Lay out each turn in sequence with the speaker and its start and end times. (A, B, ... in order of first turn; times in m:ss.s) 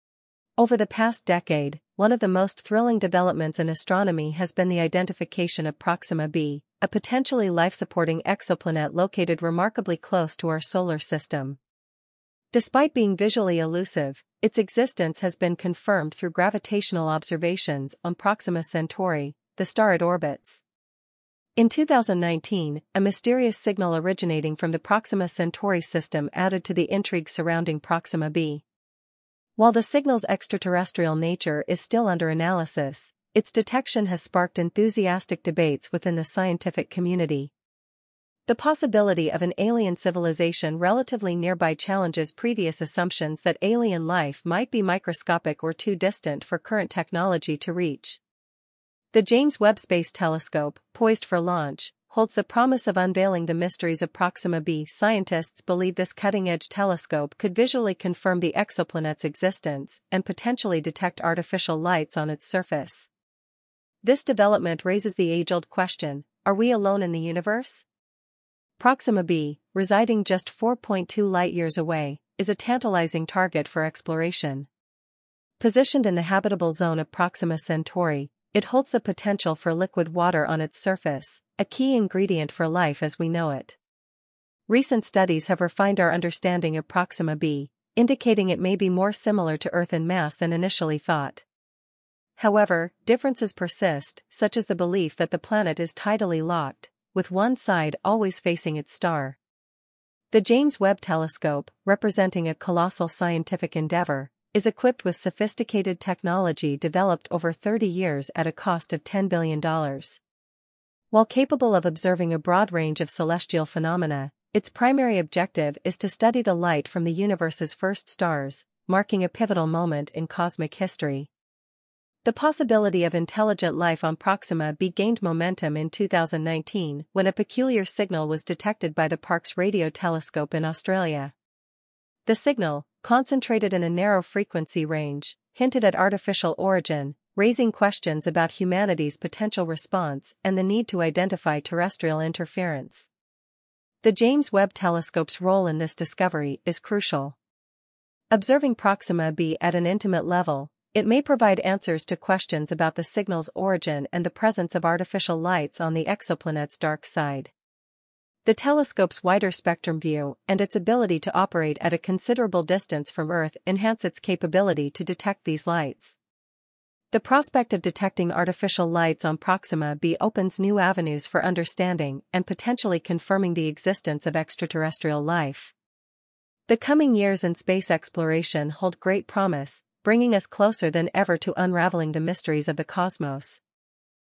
0:00.6-0:11.6 A
0:12.5-0:20.6 A
0:21.6-0:28.6 A
0:29.6-0:37.5 A
0:38.4-0:48.2 A
0:49.1-1:03.1 A
1:04.0-1:07.8 A
1:08.8-1:14.7 A
1:15.6-1:23.8 A
1:24.7-1:31.4 A
1:32.4-1:39.4 A
1:40.3-1:50.2 A
1:51.1-2:01.3 A
2:02.2-2:11.3 A
2:12.2-2:23.1 A
2:24.0-2:27.4 A
2:28.3-2:37.5 A
2:38.4-2:46.2 A
2:47.1-2:55.7 A
2:56.7-3:03.6 A